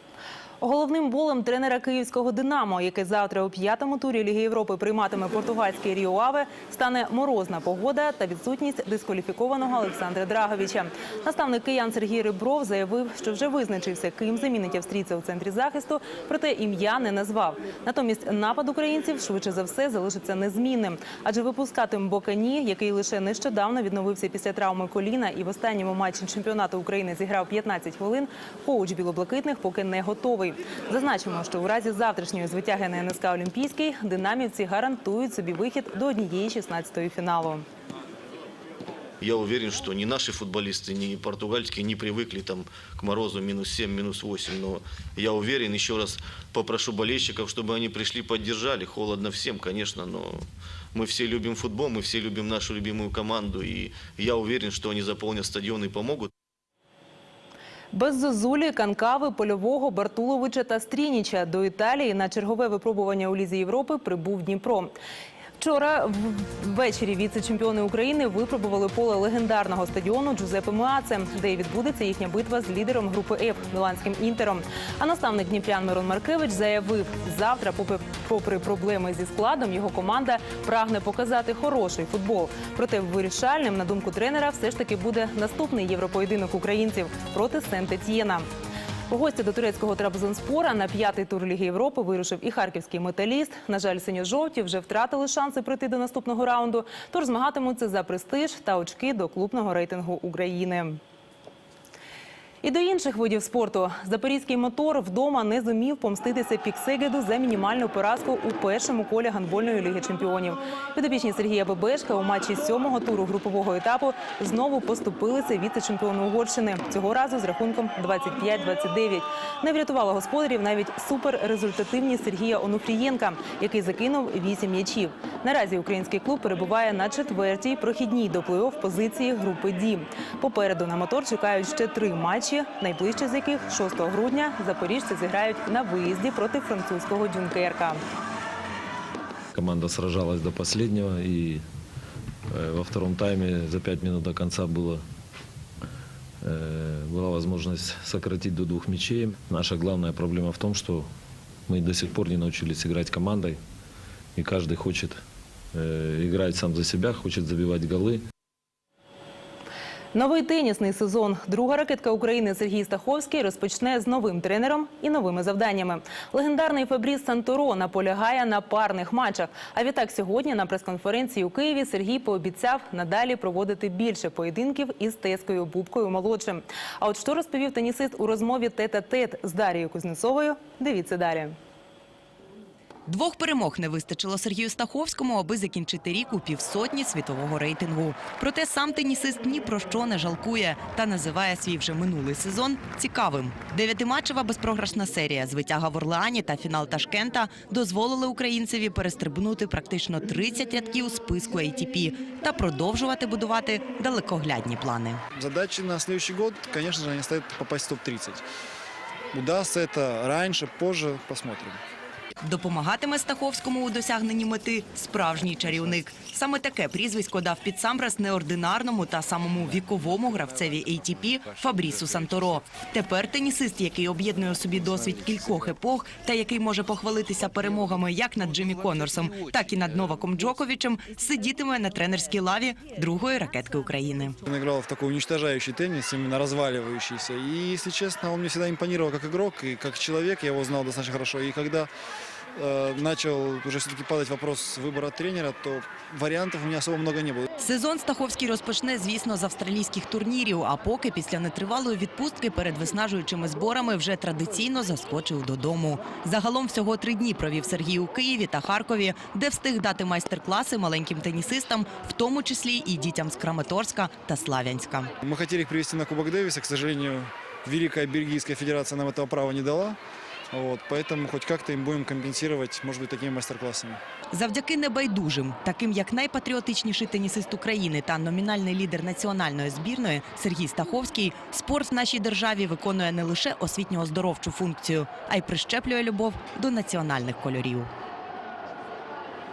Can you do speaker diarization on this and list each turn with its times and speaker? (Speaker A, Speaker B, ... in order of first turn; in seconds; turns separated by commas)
Speaker A: 0.6-37.6, Speaker B: 39.2-56.3, Speaker A: 57.9-64.9, Speaker A: 65.6-88.5, Speaker A: 89.1-101.0, Speaker A: 102.6-138.0, Speaker C: 139.5-141.6, Speaker C: 142.5-145.0, Speaker C: 146.4-151.1, Speaker C: 151.7-153.6, Speaker C: 154.4-155.2, Speaker C: 155.7-158.2, Speaker A: 160.1-181.5, Speaker D: 183.1-205.2, Speaker E: 205.3-208.4, Speaker E: 209.3-211.8, Speaker D: 212.4-234.4, Speaker E: 234.5-241.9, Speaker E: 242.6-247.5, Speaker D: 247.6-265.1, Speaker E: 265.2-270.0, Speaker E: 270.5-274.0, Speaker D: 274.3-287.9